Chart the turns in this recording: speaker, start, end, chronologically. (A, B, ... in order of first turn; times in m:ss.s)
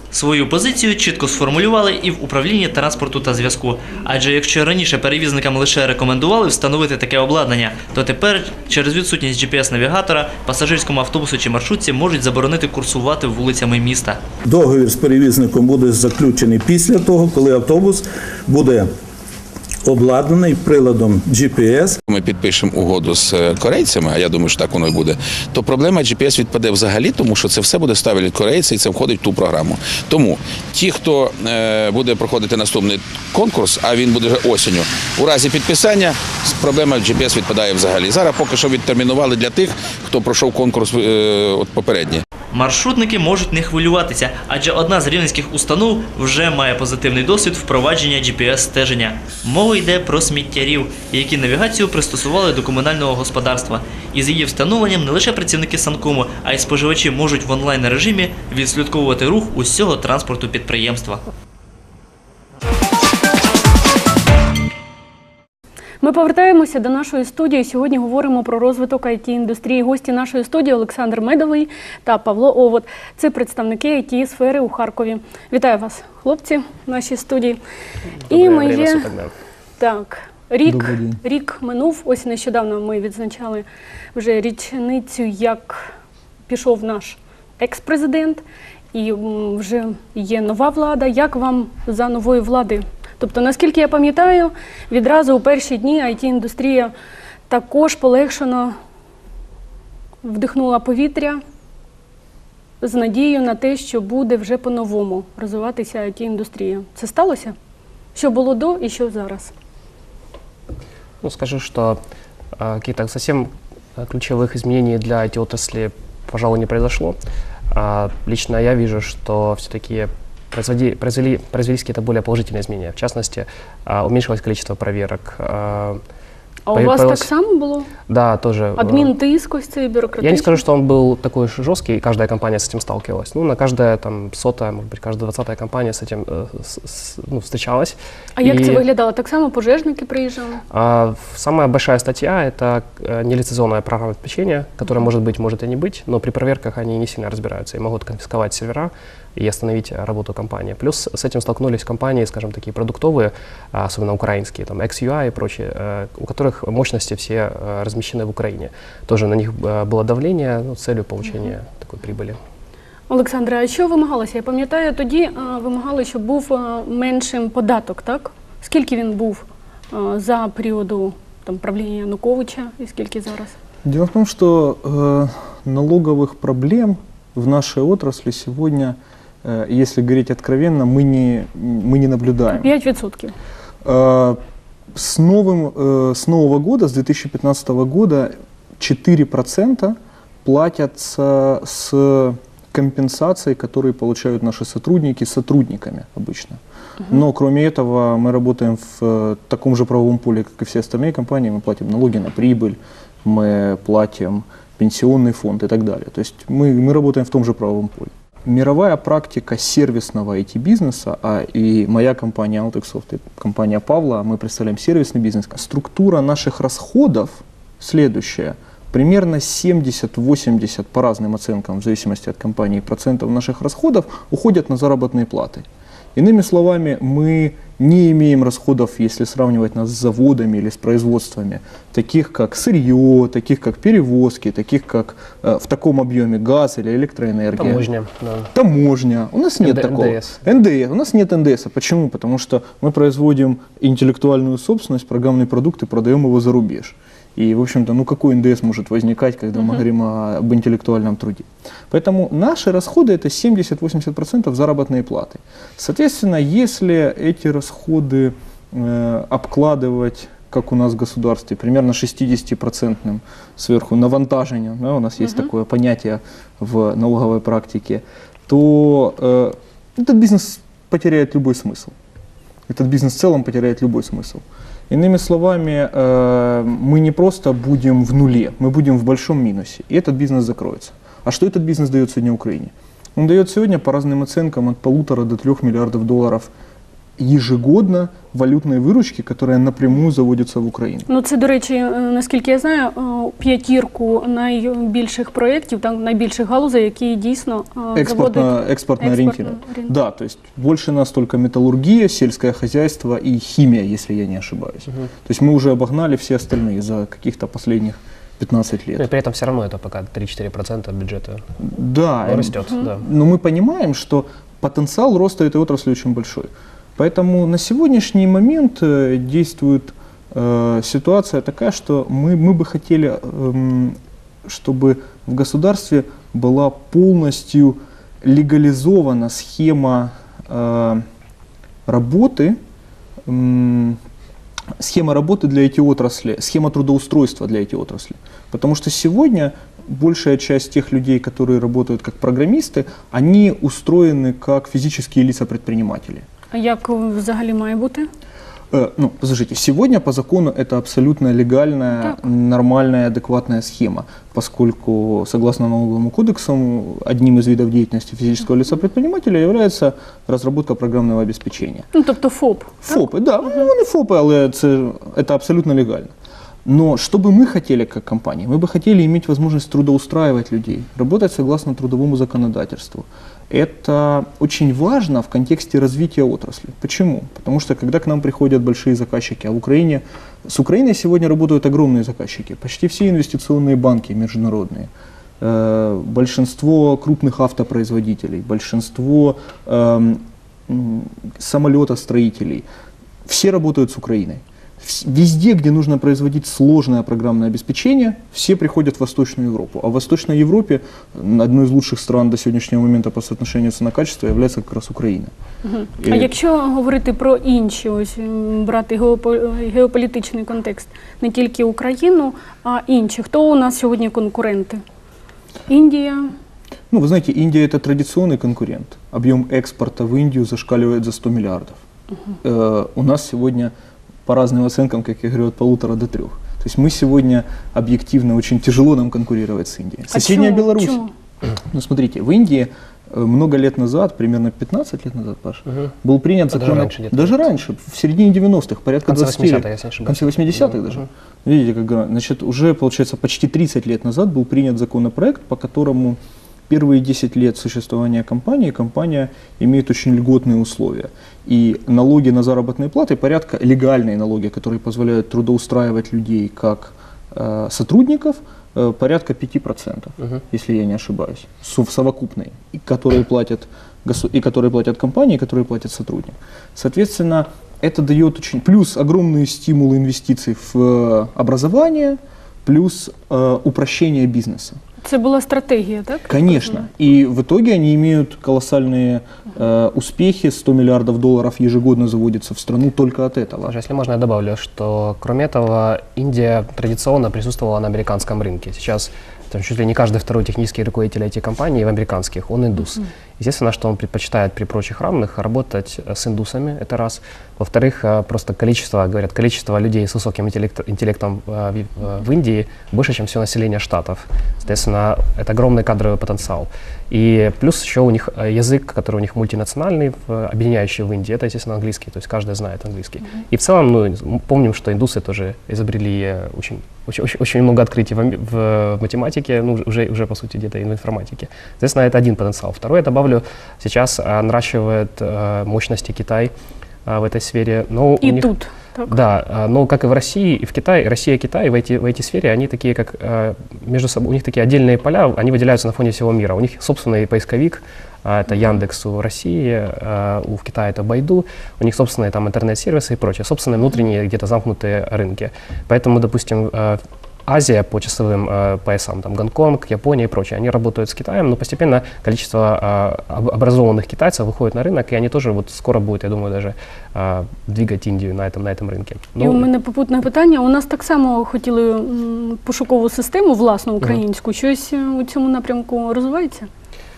0:00.1-0:14.2 A
0:14.4-0:18.9 B
0:19.8-0:22.0 B
0:22.0-0:42.2 C
0:42.5-1:01.2 A
1:06.0-1:17.6 D
1:18.3-1:19.3 E
1:18.3-1:19.1 D
1:19.8-1:25.9 D
1:20.6-1:21.2 F
1:26.5-1:36.9 D
1:37.5-1:38.7 D
1:40.2-1:41.4 D
1:42.8-1:47.5 D
1:48.1-1:49.5 D
1:51.2-1:52.0 E
1:52.6-1:57.2 E
1:57.7-2:06.0 E
2:06.7-2:07.9 D
2:06.7-2:07.3 E
2:08.1-2:09.1 E
2:08.8-2:10.6 D
2:10.2-2:18.8 E
2:18.4-2:20.6 D
2:20.7-2:42.4 E
2:43.1-2:53.5 D
2:53.8-3:02.7 F
3:02.5-3:03.3 D
3:03.8-3:04.4 F
3:04.9-3:57.8 F
3:57.6-3:58.5 E
3:58.5-4:31.9 F
3:59.6-4:00.4 E
4:32.7-4:46.5 F
4:47.2-4:51.1 F
4:51.1-4:59.9 D
4:57.9-5:09.1 F
5:09.0-5:11.4 E
5:11.6-5:31.0 F
5:12.2-5:13.0 E
5:31.8-5:32.6 F
5:33.2-5:34.0 F
5:34.8-5:46.2 F
5:46.5-5:48.0 D
5:48.7-6:01.9 F
6:01.9-6:03.6 D
6:02.8-6:06.1 F
6:06.6-6:32.6 F
6:33.2-6:45.3 F
6:45.6-6:54.8 D
6:46.0-6:46.3 F
6:55.7-6:56.3 D
6:56.9-7:01.8 F
7:02.4-7:03.7 F
7:04.2-7:11.0 F
7:10.1-7:11.1 D
7:11.6-7:54.8 F
7:15.6-7:15.9 E
7:16.5-7:17.5 E
7:19.0-7:21.1 E
7:55.0-7:56.8 D
7:56.3-8:03.7 F
8:03.6-8:46.5 E
8:47.0-8:48.5 E
8:48.2-8:49.1 D
8:49.1-9:19.7 E
9:19.4-9:26.7 D